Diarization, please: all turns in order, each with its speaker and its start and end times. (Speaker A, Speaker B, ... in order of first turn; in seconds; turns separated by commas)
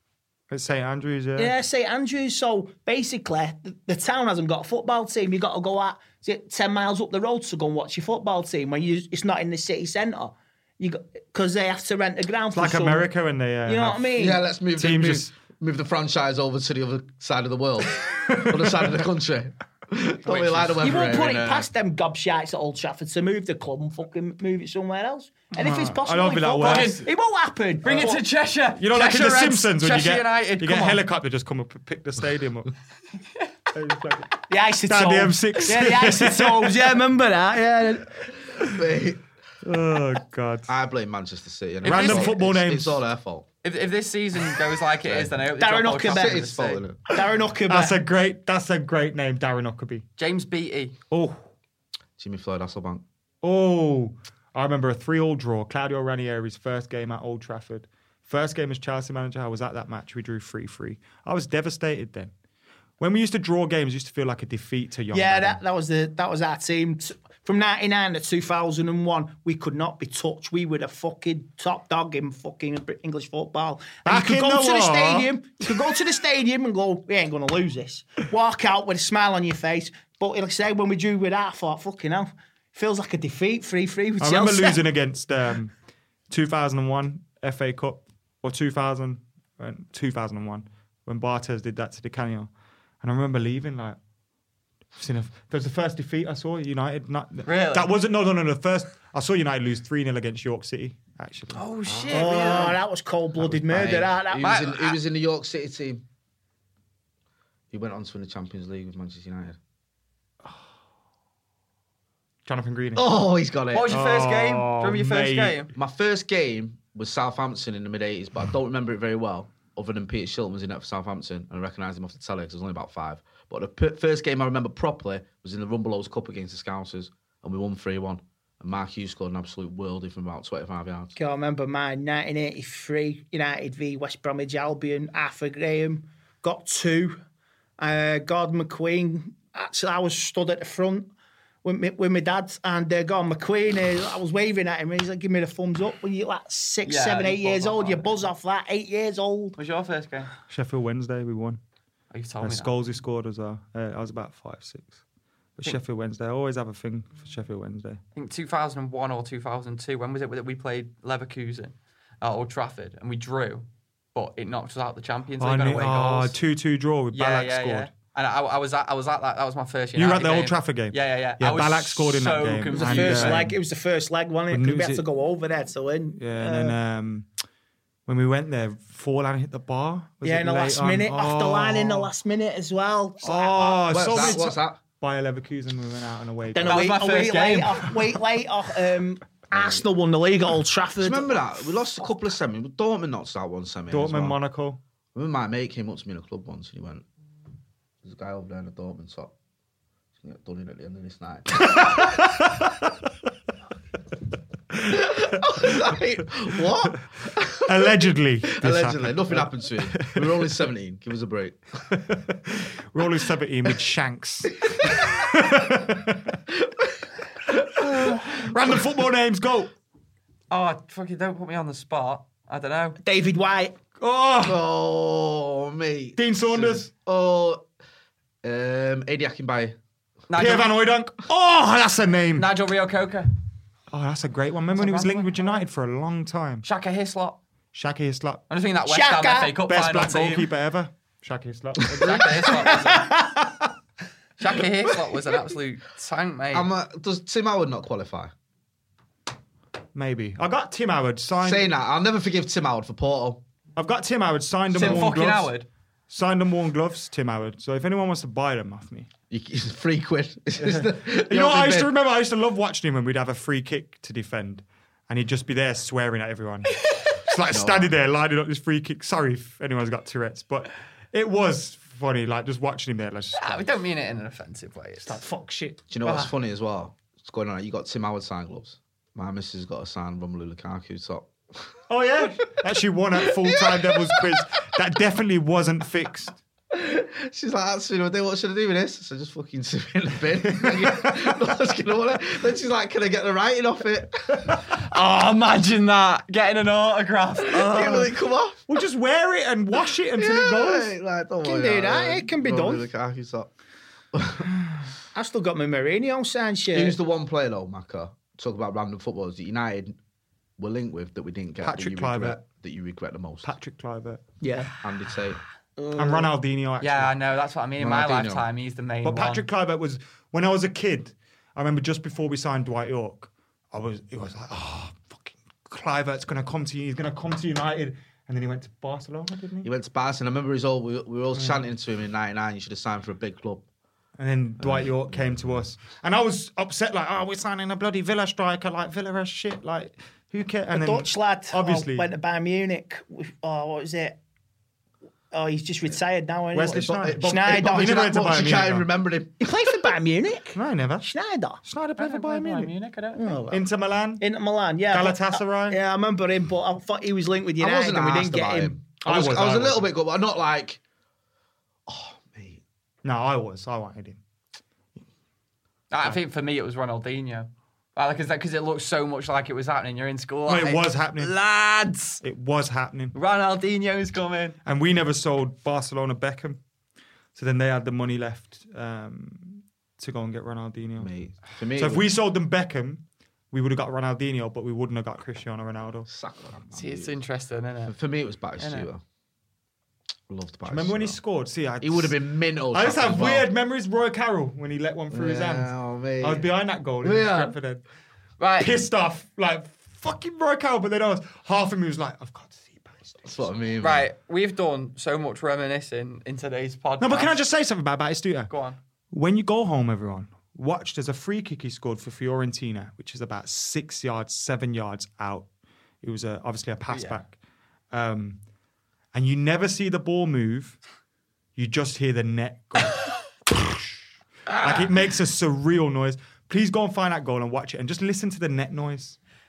Speaker A: 0.5-1.5, Speaker B: 1.4-13.1, Speaker A: 12.5-14.1, Speaker B: 13.7-14.4, Speaker C: 14.2-21.7, Speaker A: 14.8-15.3, Speaker A: 18.0-18.9, Speaker D: 20.2-21.0, Speaker B: 20.8-28.2, Speaker A: 25.6-27.0, Speaker D: 26.6-27.1, Speaker D: 27.8-31.0, Speaker A: 28.8-32.7, Speaker A: 33.7-36.9, Speaker B: 34.5-38.2, Speaker C: 38.6-39.2, Speaker A: 39.6-40.7, Speaker C: 40.7-43.5, Speaker D: 41.8-42.3, Speaker A: 41.8-43.0, Speaker D: 43.6-46.8, Speaker C: 45.0-45.4, Speaker B: 45.6-46.5, Speaker C: 46.0-47.0, Speaker B: 47.1-48.0, Speaker A: 47.7-50.1, Speaker D: 50.2-51.0, Speaker A: 51.1-51.4, Speaker C: 52.2-53.0, Speaker A: 53.4-62.3, Speaker A: 63.0-65.6, Speaker B: 65.1-84.8, Speaker A: 74.0-75.7, Speaker A: 84.2-85.7, Speaker A: 86.3-92.5, Speaker A: 93.0-94.0, Speaker A: 95.0-101.6, Speaker D: 97.5-97.9, Speaker D: 101.5-102.8, Speaker C: 101.9-102.8, Speaker B: 102.1-104.5, Speaker C: 103.4-106.0, Speaker D: 104.4-105.0, Speaker C: 107.7-109.6, Speaker A: 112.5-113.0, Speaker C: 113.0-113.9, Speaker D: 113.7-115.7, Speaker A: 113.9-115.7, Speaker C: 115.8-131.2, Speaker B: 131.2-137.2, Speaker B: 137.8-141.1, Speaker B: 141.6-149.6, Speaker D: 146.8-148.2, Speaker D: 149.6-150.3, Speaker A: 150.5-151.6, Speaker D: 152.1-152.7, Speaker A: 152.4-154.9, Speaker A: 155.6-158.0, Speaker D: 158.2-166.3, Speaker A: 165.4-167.9, Speaker D: 167.1-173.5, Speaker A: 170.0-173.6, Speaker B: 172.7-176.8, Speaker A: 174.5-175.0, Speaker A: 176.2-177.3, Speaker A: 178.1-182.1, Speaker B: 180.2-184.4, Speaker A: 183.2-186.9, Speaker C: 183.9-184.8, Speaker B: 186.5-191.6, Speaker D: 186.7-187.9, Speaker C: 189.5-189.8, Speaker C: 191.0-194.4, Speaker A: 193.9-194.8, Speaker C: 195.2-197.1, Speaker C: 198.0-199.3, Speaker C: 200.2-201.9, Speaker A: 201.6-202.7, Speaker C: 204.9-211.6, Speaker A: 207.7-210.3, Speaker A: 211.9-216.4, Speaker A: 217.8-219.7, Speaker D: 220.5-223.0, Speaker B: 223.0-223.8, Speaker A: 224.0-224.6, Speaker C: 224.4-227.6, Speaker A: 226.2-226.9, Speaker C: 228.4-229.8, Speaker D: 230.3-230.7, Speaker A: 230.4-232.5, Speaker D: 232.3-233.3, Speaker A: 233.9-236.7, Speaker D: 234.7-235.6, Speaker D: 236.6-237.4, Speaker A: 237.7-238.4, Speaker D: 238.5-240.5, Speaker B: 238.9-239.6, Speaker A: 239.6-243.7, Speaker D: 242.0-243.1, Speaker D: 244.4-246.7, Speaker C: 246.5-248.3, Speaker A: 249.9-251.7, Speaker C: 251.4-253.4, Speaker A: 253.8-255.5, Speaker D: 254.7-255.7, Speaker C: 254.8-255.1, Speaker A: 256.1-259.1, Speaker C: 259.3-261.9, Speaker A: 260.6-273.7, Speaker C: 267.5-267.9, Speaker D: 273.4-275.2, Speaker A: 275.0-275.9, Speaker C: 275.9-281.6, Speaker D: 276.0-276.3, Speaker A: 281.9-286.4, Speaker C: 283.2-284.4, Speaker C: 286.7-294.6, Speaker A: 290.5-291.3, Speaker D: 294.7-298.1, Speaker C: 297.6-298.6, Speaker A: 297.6-298.1, Speaker A: 298.7-300.9, Speaker C: 300.2-303.5, Speaker B: 301.4-302.9, Speaker C: 304.1-304.5, Speaker B: 305.1-307.0, Speaker C: 306.7-310.0, Speaker C: 310.6-313.5, Speaker A: 311.6-312.4, Speaker A: 313.4-314.2, Speaker B: 314.4-314.8, Speaker C: 314.8-315.4, Speaker B: 315.8-316.3, Speaker A: 316.0-317.1, Speaker D: 316.8-319.5, Speaker C: 317.8-318.4, Speaker A: 319.0-329.7, Speaker C: 329.6-333.6, Speaker A: 331.4-331.6, Speaker A: 334.2-342.1, Speaker C: 334.6-335.4, Speaker B: 340.7-344.2, Speaker B: 345.3-348.0, Speaker A: 346.5-348.9, Speaker C: 346.7-349.5, Speaker B: 349.4-351.6, Speaker A: 350.6-351.1, Speaker A: 351.6-352.7, Speaker D: 352.0-353.4, Speaker B: 353.2-353.7, Speaker A: 353.5-354.2, Speaker B: 354.2-358.8, Speaker A: 354.9-355.8, Speaker C: 357.6-360.8, Speaker A: 359.0-359.9, Speaker C: 361.9-362.6, Speaker A: 363.0-364.2, Speaker D: 365.9-372.2, Speaker A: 370.5-371.3, Speaker A: 372.2-373.1, Speaker D: 373.1-374.6, Speaker A: 374.7-376.6, Speaker A: 377.4-381.1, Speaker C: 381.0-382.1, Speaker A: 381.8-386.1, Speaker C: 386.1-387.2, Speaker D: 386.7-387.9, Speaker C: 387.9-389.0, Speaker D: 388.6-388.9, Speaker C: 390.3-391.2, Speaker A: 390.7-392.1, Speaker C: 391.8-393.5, Speaker A: 392.7-397.9, Speaker C: 395.1-397.6, Speaker D: 398.4-398.8, Speaker A: 398.6-403.5, Speaker C: 403.3-404.1, Speaker D: 403.8-407.4, Speaker A: 407.0-408.5, Speaker D: 408.5-408.8, Speaker A: 409.1-415.5, Speaker A: 416.0-417.4, Speaker D: 416.9-417.2, Speaker A: 417.9-418.4, Speaker A: 419.1-420.8, Speaker A: 421.6-423.9, Speaker A: 424.6-429.2